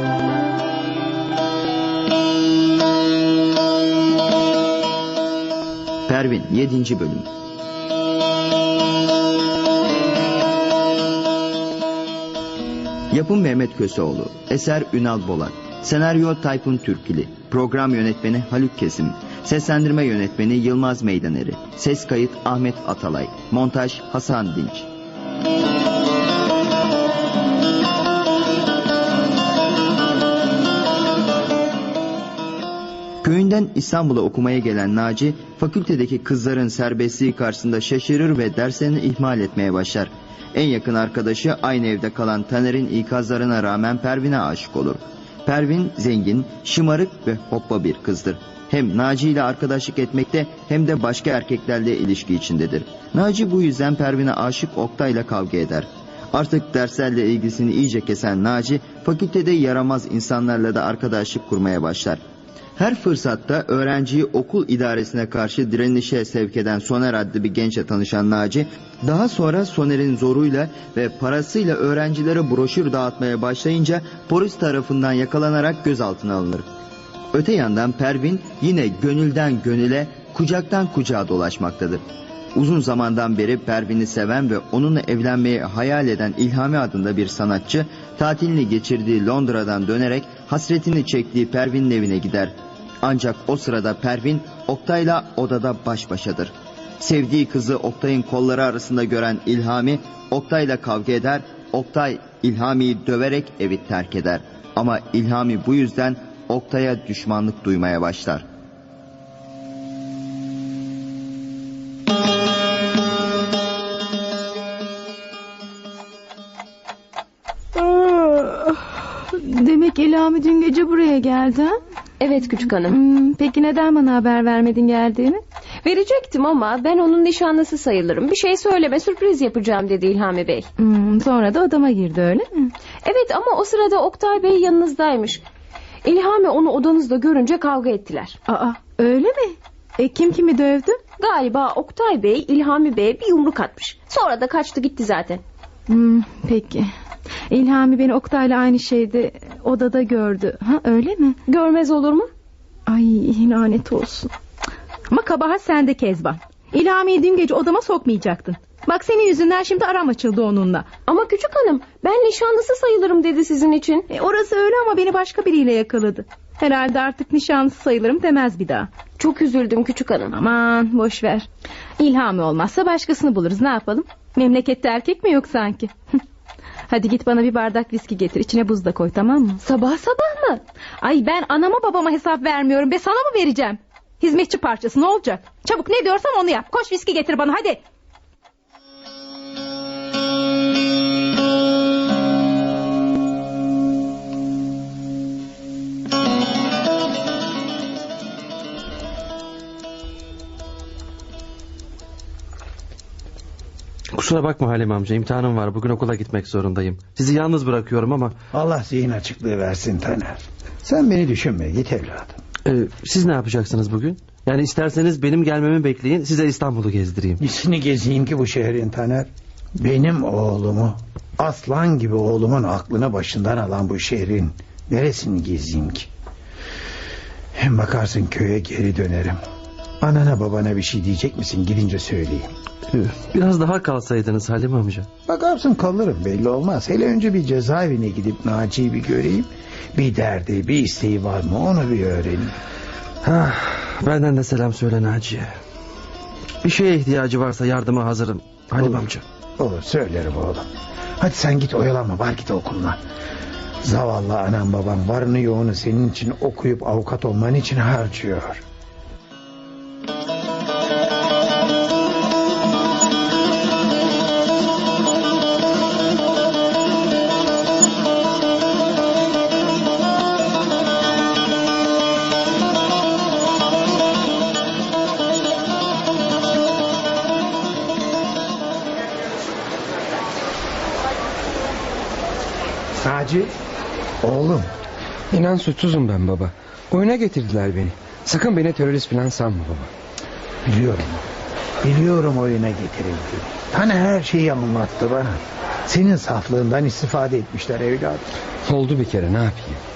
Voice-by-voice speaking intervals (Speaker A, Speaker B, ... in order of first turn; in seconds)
Speaker A: 6.1-7.3, 13.1-24.9, 33.2-62.2, 62.8-76.7, 77.3-82.0, 82.5-108.5
Speaker B: 117.8-118.8, 119.3-121.8, 122.8-125.4, 130.8-132.7, 138.5-141.0, 145.9-146.9, 147.5-151.4, 152.9-154.3, 155.1-160.9, 164.1-168.9, 170.3-171.5, 172.0-175.9, 176.9-179.6, 181.0-187.8
Speaker C: 122.2-123.0, 125.8-130.7, 133.0-135.4, 136.0-138.4, 141.2-145.4, 151.5-152.3, 161.1-164.1, 169.2-170.3, 179.6-180.6
Speaker D: 204.1-208.3, 212.7-217.4, 232.9-235.1, 243.2-245.5, 246.6-249.2
Speaker E: 208.5-212.4, 217.4-226.1, 227.6-229.4, 230.0-232.5, 235.3-242.5, 248.8-250.7, 251.2-253.0, 253.8-258.6, 283.0-283.5, 284.2-284.7, 290.6-291.2, 291.8-298.3
Speaker F: 285.3-289.9, 298.7-299.8